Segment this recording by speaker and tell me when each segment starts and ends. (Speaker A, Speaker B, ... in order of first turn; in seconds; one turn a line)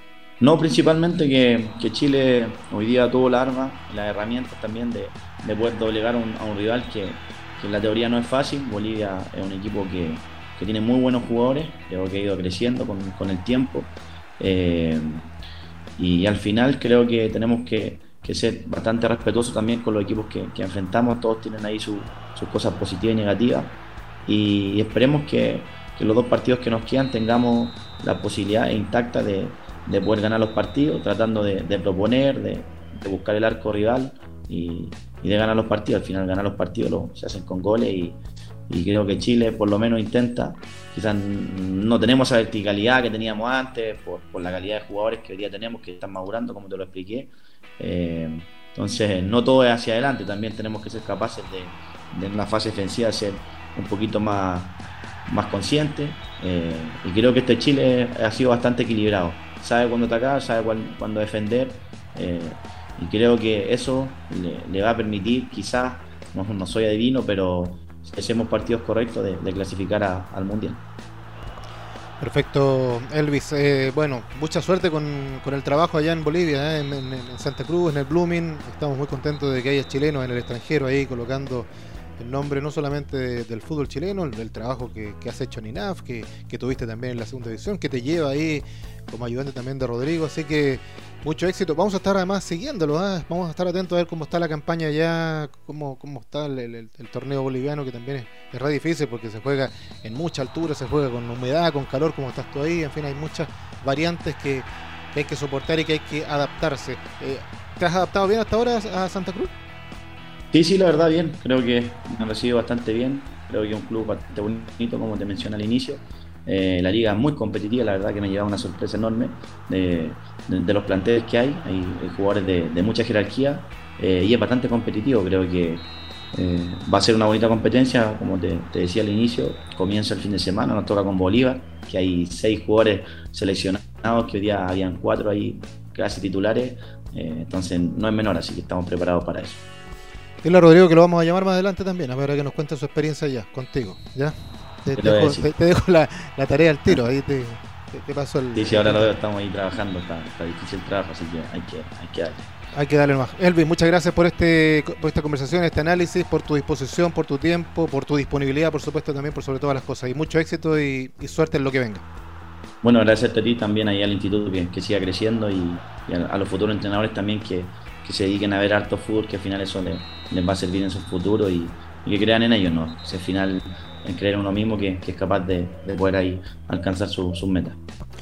Speaker A: 0.4-15.2
Speaker A: 16.0-23.7
Speaker A: 24.2-70.8
Speaker B: 72.2-109.5
Speaker A: 110.5-139.6
Speaker B: 140.4-149.1
Speaker A: 144.9-145.5
Speaker A: 148.5-152.5
Speaker B: 152.7-162.0
Speaker A: 162.8-177.8